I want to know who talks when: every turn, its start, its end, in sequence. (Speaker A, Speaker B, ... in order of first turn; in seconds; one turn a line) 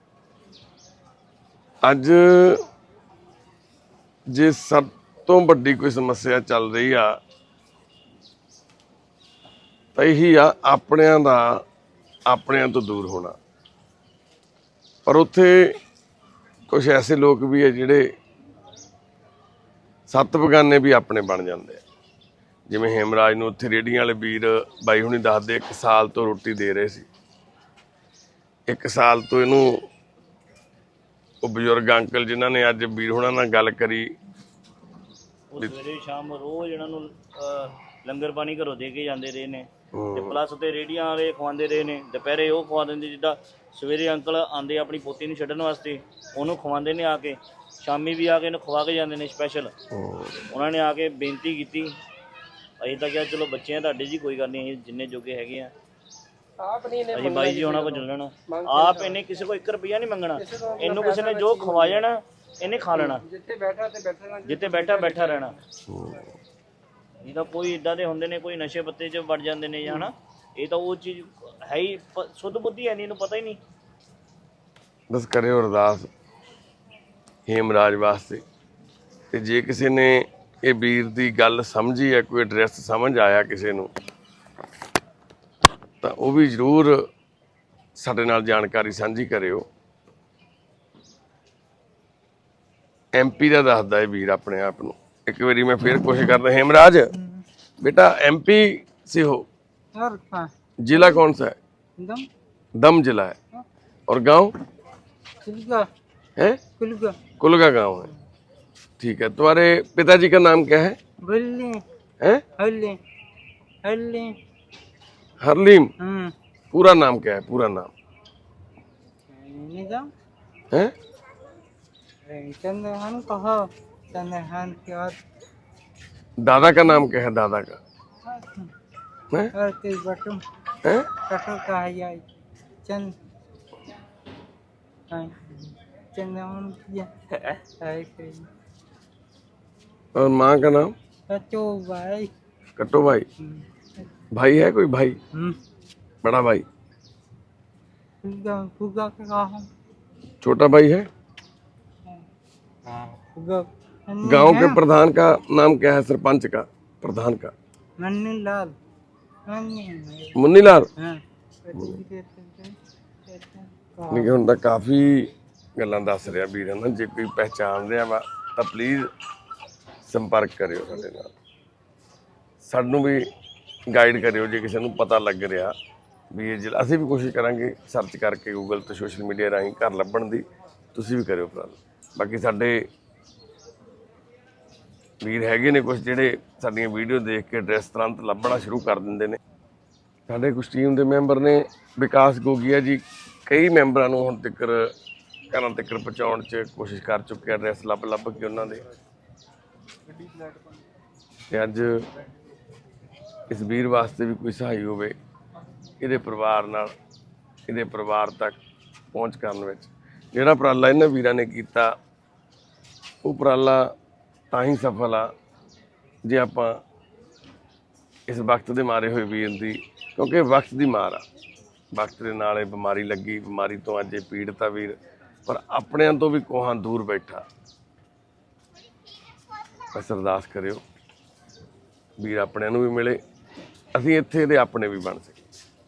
Speaker A: 1.8-2.7
Speaker A: 4.3-7.2
Speaker A: 9.9-11.6
Speaker A: 12.3-13.4
Speaker A: 15.1-15.8
Speaker A: 16.7-18.1
Speaker A: 20.1-21.8
Speaker A: 22.7-27.1
Speaker A: 28.7-29.9
Speaker A: 31.4-34.1
Speaker B: 35.5-49.7
Speaker A: 39.9-40.4
Speaker A: 49.9-50.4
Speaker B: 50.5-51.9
Speaker B: 52.8-55.7
Speaker C: 56.6-59.2
Speaker B: 57.1-63.2
Speaker C: 60.4-62.1
Speaker C: 62.8-65.6
Speaker B: 64.5-65.5
Speaker A: 65.9-66.3
Speaker B: 67.2-73.6
Speaker A: 75.1-76.1
Speaker A: 77.5-78.4
Speaker A: 79.3-83.9
Speaker A: 86.0-87.1
Speaker A: 88.0-89.7
Speaker A: 93.2-97.1
Speaker D: 97.2-97.4
Speaker A: 97.8-99.5
Speaker D: 100.0-101.2
Speaker A: 100.8-101.6
Speaker D: 102.0-102.3
Speaker A: 102.8-103.4
Speaker A: 104.1-104.5
Speaker D: 105.5-105.9
Speaker D: 106.8-107.2
Speaker A: 107.4-108.1
Speaker A: 109.0-111.0
Speaker D: 111.2-111.8
Speaker D: 112.6-113.0
Speaker D: 113.8-114.3
Speaker A: 115.4-115.9
Speaker D: 116.0-116.3
Speaker A: 116.7-117.9
Speaker D: 119.3-120.1
Speaker D: 122.3-125.2
Speaker A: 126.4-127.8
Speaker D: 128.3-128.7
Speaker D: 129.5-130.4
Speaker D: 131.3-132.2
Speaker D: 132.8-133.1
Speaker D: 135.1-137.1
Speaker D: 137.8-138.5
Speaker A: 140.2-140.9
Speaker D: 141.3-142.3
Speaker A: 142.8-143.3
Speaker A: 144.3-145.2
Speaker A: 146.2-146.7
Speaker D: 148.2-149.7
Speaker A: 150.4-151.1
Speaker D: 152.9-154.8
Speaker A: 154.2-157.5
Speaker D: 158.0-158.7
Speaker D: 159.5-160.4
Speaker A: 160.3-160.9
Speaker D: 161.0-162.8
Speaker A: 161.7-162.0
Speaker D: 163.3-164.4
Speaker A: 164.1-169.1
Speaker A: 170.1-171.3
Speaker A: 172.6-173.2
Speaker A: 173.9-175.7
Speaker A: 176.3-182.9
Speaker A: 185.2-189.4
Speaker A: 190.3-194.9
Speaker A: 195.5-198.8
Speaker A: 201.5-202.0
Speaker A: 203.5-205.2
Speaker A: 206.0-206.9
Speaker A: 207.7-208.6
Speaker A: 209.1-211.9
Speaker A: 213.2-213.9
Speaker A: 214.5-215.3
Speaker A: 216.2-216.8
Speaker A: 218.3-221.2
Speaker A: 221.9-227.5
Speaker A: 229.9-230.8
Speaker A: 232.2-233.2
Speaker A: 233.9-235.5